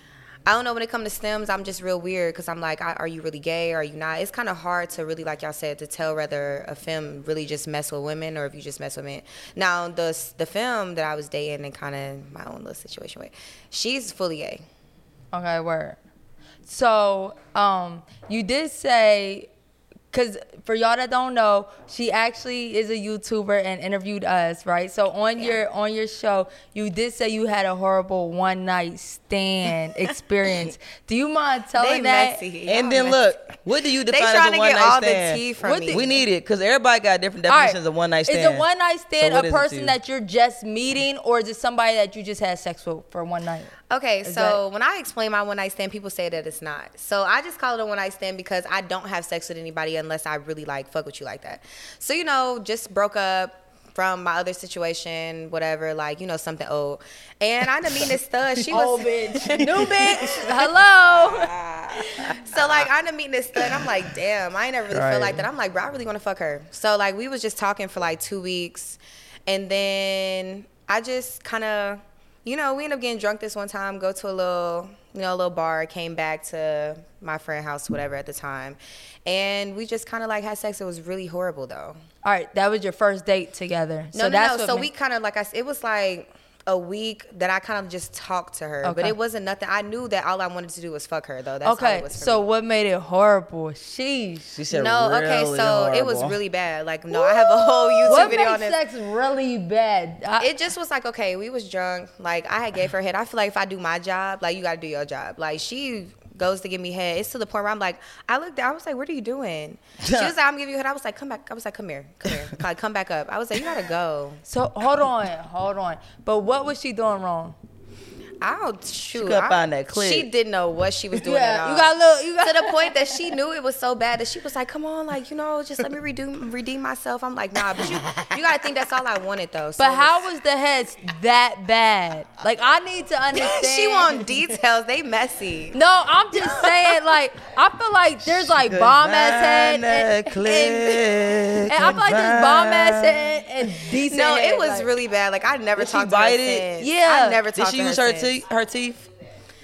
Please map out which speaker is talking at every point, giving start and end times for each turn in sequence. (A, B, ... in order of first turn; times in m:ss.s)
0:00.4-0:14.6 A
0:15.3-0:16.0 B
0:16.6-0:19.5 B
0:20.1-0:32.4 B
0:31.8-0:33.2 A
0:32.7-0:38.6 C
0:34.1-0:36.1 A
0:35.6-0:36.1 B
0:37.5-0:44.6 B
0:39.2-0:39.9 C
0:43.9-1:22.0 A
0:58.7-1:01.5 B
1:04.9-1:05.4 C
1:22.2-1:24.9 B
1:24.1-1:32.5 A
1:28.8-1:29.2 B
1:31.6-1:34.5 B
1:34.5-1:36.4 C
1:34.7-1:38.8 A
1:37.1-1:40.5 B
1:38.0-1:38.5 C
1:40.4-1:54.4 A
1:50.0-1:50.3 C
1:54.5-1:57.6 B
1:58.4-2:10.2 A
1:59.1-2:00.3 C
2:01.2-2:03.1 B
2:09.8-2:14.2 B
2:13.3-2:15.8 A
2:15.7-2:21.2 B
2:16.4-2:16.9 A
2:18.2-2:23.3 C
2:21.7-2:24.9 B
2:24.1-2:28.4 A
2:25.8-2:26.7 C
2:26.8-2:27.4 B
2:27.5-2:29.0 C